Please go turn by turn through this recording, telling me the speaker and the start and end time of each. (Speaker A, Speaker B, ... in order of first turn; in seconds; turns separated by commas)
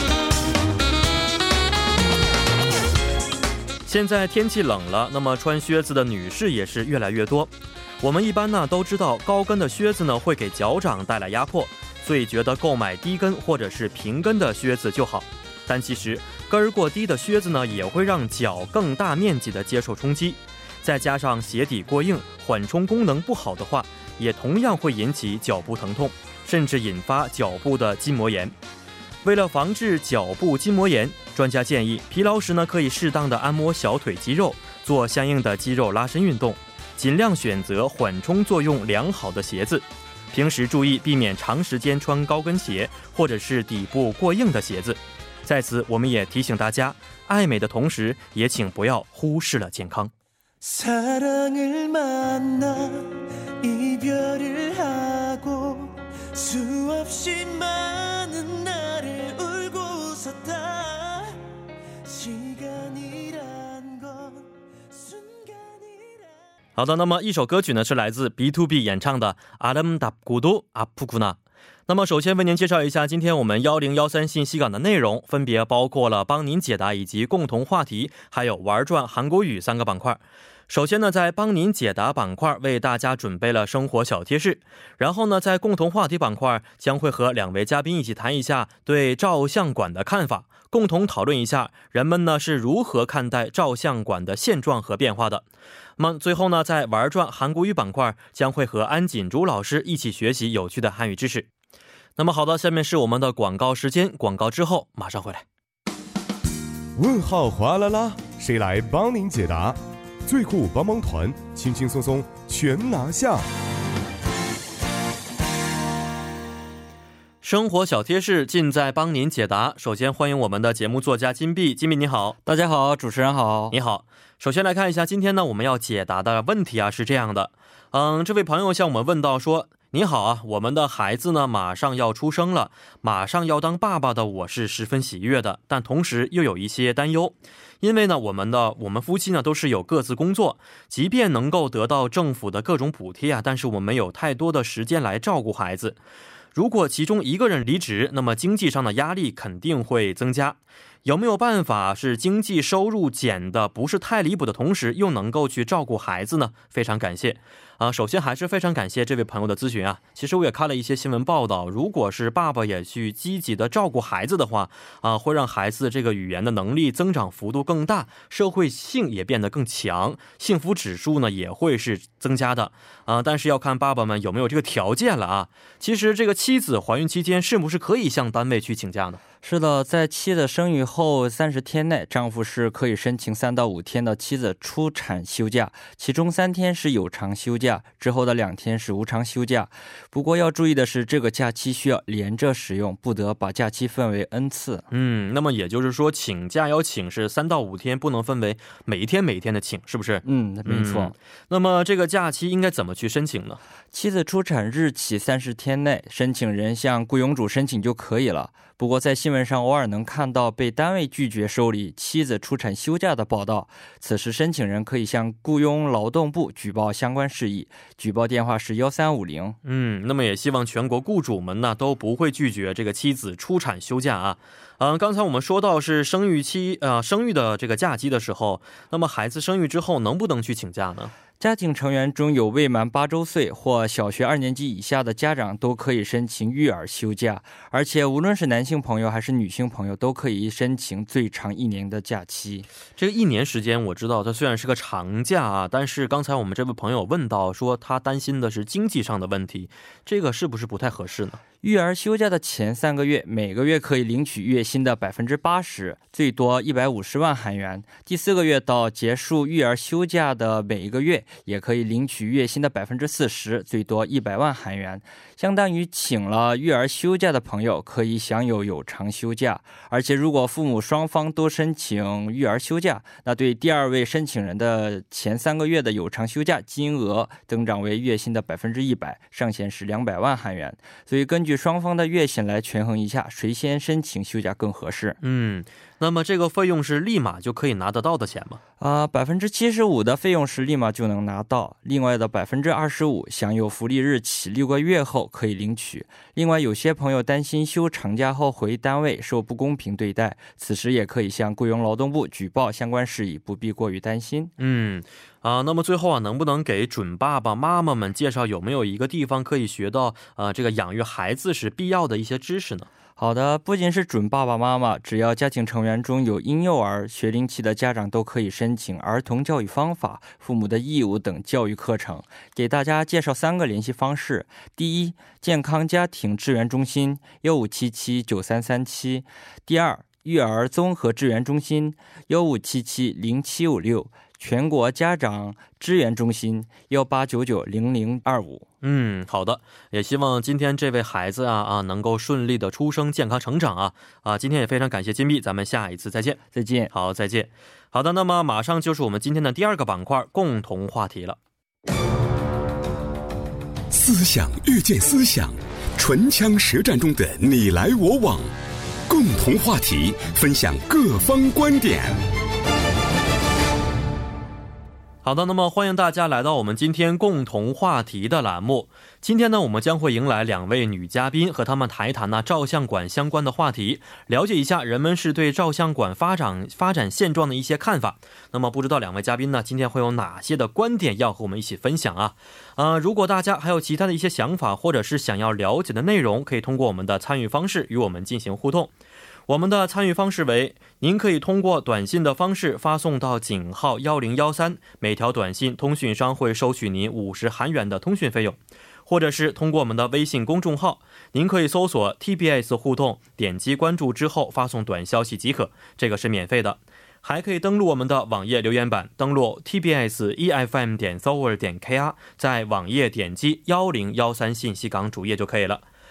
Speaker A: 3.9-28.5, Speaker A: 29.2-50.1, Speaker B: 50.6-61.3, Speaker B: 62.0-66.3, Speaker A: 66.8-95.5, Speaker A: 96.0-101.5, Speaker A: 102.2-105.4, Speaker C: 107.0-113.4, Speaker A: 117.4-122.3, Speaker D: 122.4-123.8, Speaker A: 123.7-146.0, Speaker A: 146.5-179.2, Speaker D: 179.4-194.9, Speaker A: 194.9-203.6, Speaker D: 200.2-201.1, Speaker D: 203.9-219.6, Speaker A: 219.6-231.1, Speaker D: 231.4-242.7, Speaker A: 243.0-251.4, Speaker D: 251.6-285.2, Speaker A: 285.2-288.6, Speaker D: 288.8-304.5, Speaker A: 304.6-312.9, Speaker D: 313.2-338.7, Speaker A: 338.8-346.4, Speaker D: 346.5-346.9, Speaker A: 346.9-351.4, Speaker E: 353.9-358.5, Speaker E: 359.1-362.2, Speaker A: 365.2-388.9, Speaker A: 389.5-415.8